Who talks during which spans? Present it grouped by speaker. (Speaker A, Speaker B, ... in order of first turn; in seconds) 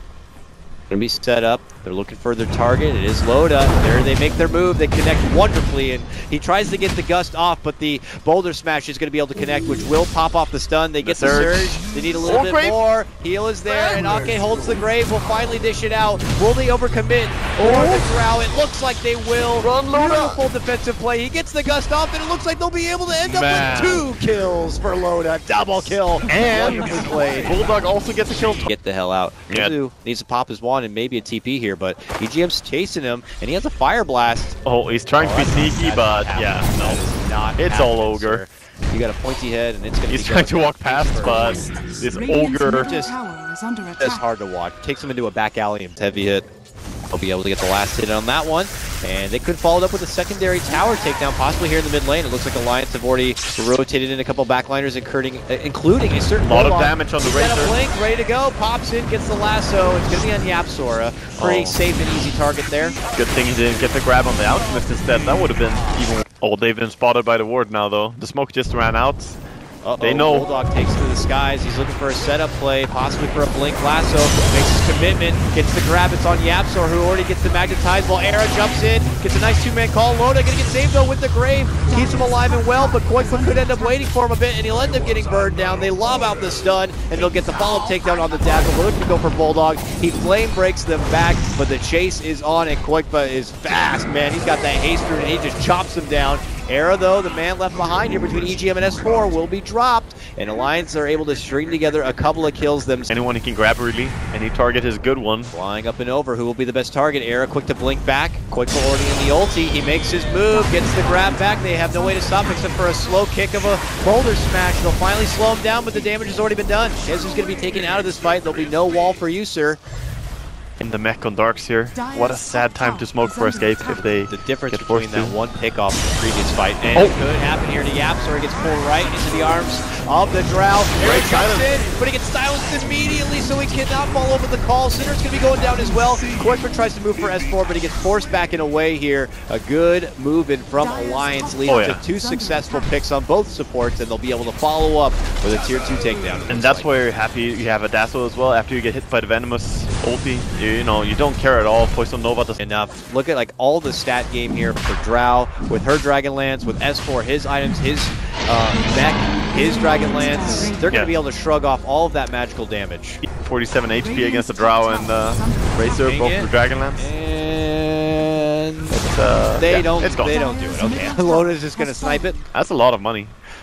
Speaker A: 0.9-27.5, 28.6-34.6, 35.2-41.6, 42.7-43.1, 44.0-46.5, 47.1-63.0, 65.7-66.1, 69.8-103.1, 105.5-119.8, 124.3-146.9, 152.6-163.2, 166.0-169.0, 169.6-172.4
Speaker B: 11.0-12.8, 17.6-18.1, 19.6-20.4, 23.2-24.1, 26.3-28.7, 29.5-29.8, 34.6-37.0, 37.6-38.4, 40.1-42.9, 56.4-57.8, 61.4-61.8, 63.1-69.4, 70.0-70.5, 103.1-105.5, 120.8-125.3, 131.0-131.7, 141.7-142.0, 146.5-152.6, 163.2-167.1, 168.9-170.4, 172.5-173.3
Speaker C: 42.1-44.1, 82.0-83.5, 110.6-112.9, 122.0-123.8, 141.1-142.6, 164.1-165.8, 170.2-172.2